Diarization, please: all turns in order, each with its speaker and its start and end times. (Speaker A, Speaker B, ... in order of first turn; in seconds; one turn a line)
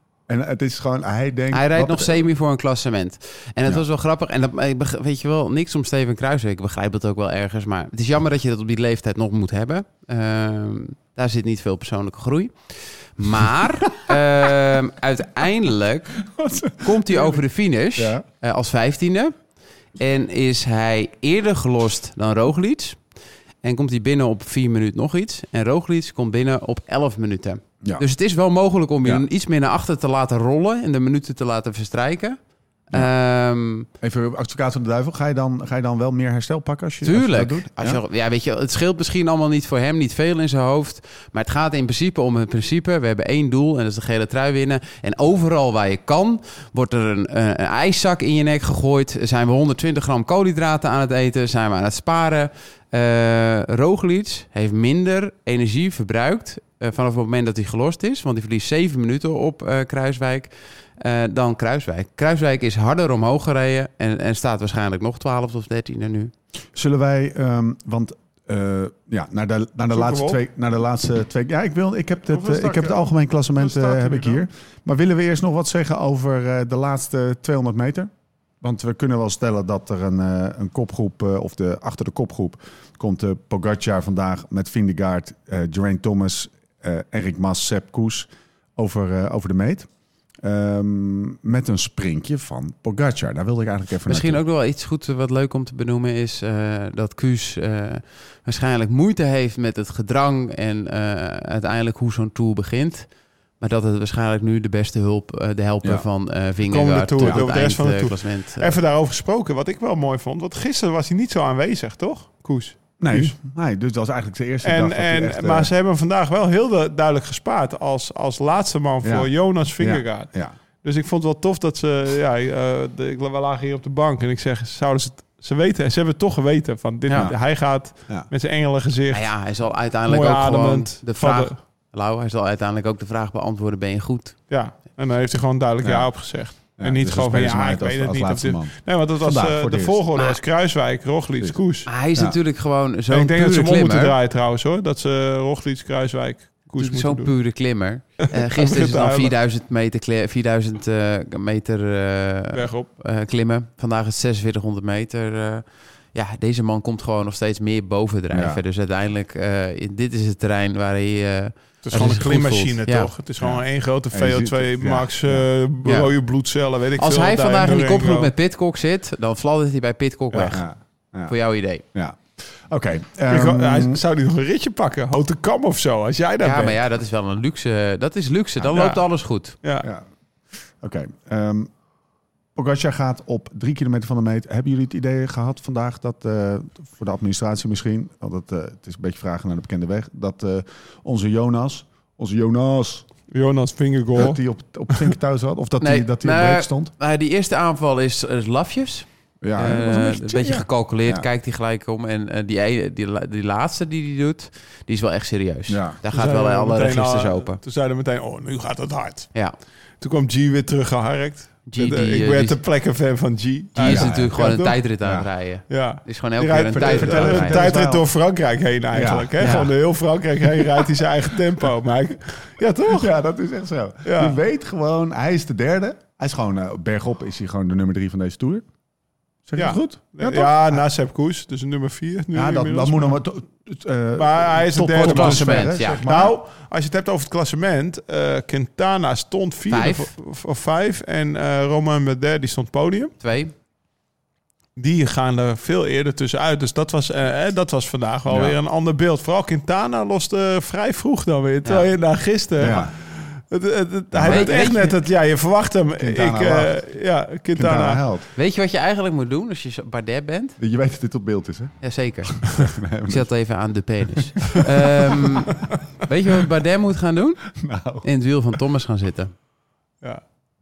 Speaker A: 0.3-2.2
Speaker B: 1.5-16.2
Speaker A: 16.2-17.4
Speaker B: 16.8-19.4
Speaker A: 18.0-18.2
Speaker B: 20.0-23.0
Speaker B: 23.6-32.4
Speaker B: 32.9-33.9
Speaker A: 34.0-38.0
Speaker B: 37.0-66.3
Speaker A: 66.7-89.9
Speaker C: 69.9-70.4
Speaker C: 72.3-74.5
Speaker A: 90.4-94.4
Speaker B: 94.1-103.1
Speaker B: 103.6-108.8
Speaker C: 106.7-113.3
Speaker A: 113.0-115.7
Speaker C: 114.6-129.3
Speaker A: 119.0-120.5
Speaker B: 127.1-127.3
Speaker A: 127.1-127.4
Speaker B: 129.1-134.4
Speaker C: 130.1-131.6
Speaker C: 134.5-141.9
Speaker A: 135.8-140.0
Speaker B: 141.9-144.2
Speaker C: 143.1-147.3
Speaker B: 146.8-163.1
Speaker C: 148.3-149.3
Speaker C: 152.5-152.9
Speaker A: 158.3-158.6
Speaker C: 161.8-168.3
Speaker A: 163.4-165.5
Speaker B: 165.8-166.1
Speaker B: 167.0-170.7
Speaker A: 170.3-171.3
Speaker B: 171.3-171.8
Speaker A: 171.9-174.0
Speaker C: 173.3-176.8
Speaker B: 176.4-179.6
Speaker C: 178.7-179.0
Speaker C: 179.6-179.9
Speaker A: 180.8-181.7
Speaker A: 182.6-193.1
Speaker C: 193.3-194.4
Speaker A: 194.2-196.9
Speaker B: 195.8-207.6
Speaker A: 199.4-201.3
Speaker A: 205.7-206.0
Speaker C: 206.1-209.3
Speaker C: 210.0-214.8
Speaker B: 211.7-212.6
Speaker B: 213.8-217.6
Speaker A: 213.8-214.4
Speaker A: 215.0-215.3
Speaker C: 215.7-223.1
Speaker A: 216.7-218.1
Speaker A: 218.9-219.7
Speaker B: 219.4-219.7
Speaker A: 222.9-228.7
Speaker C: 224.1-224.4
Speaker A: 229.4-230.8
Speaker C: 229.6-233.2
Speaker A: 232.3-236.3
Speaker C: 234.2-243.2
Speaker B: 235.0-236.0
Speaker B: 239.7-240.1
Speaker B: 243.2-243.5
Speaker C: 244.8-258.0
Speaker A: 248.3-248.6
Speaker A: 252.6-252.9
Speaker A: 254.1-254.7
Speaker B: 254.2-255.0
Speaker A: 256.0-256.8
Speaker A: 257.5-258.3
Speaker B: 258.4-260.6
Speaker A: 260.6-261.8
Speaker B: 261.8-262.6
Speaker A: 262.3-263.3
Speaker B: 263.1-267.4
Speaker A: 267.5-268.1
Speaker B: 268.0-269.3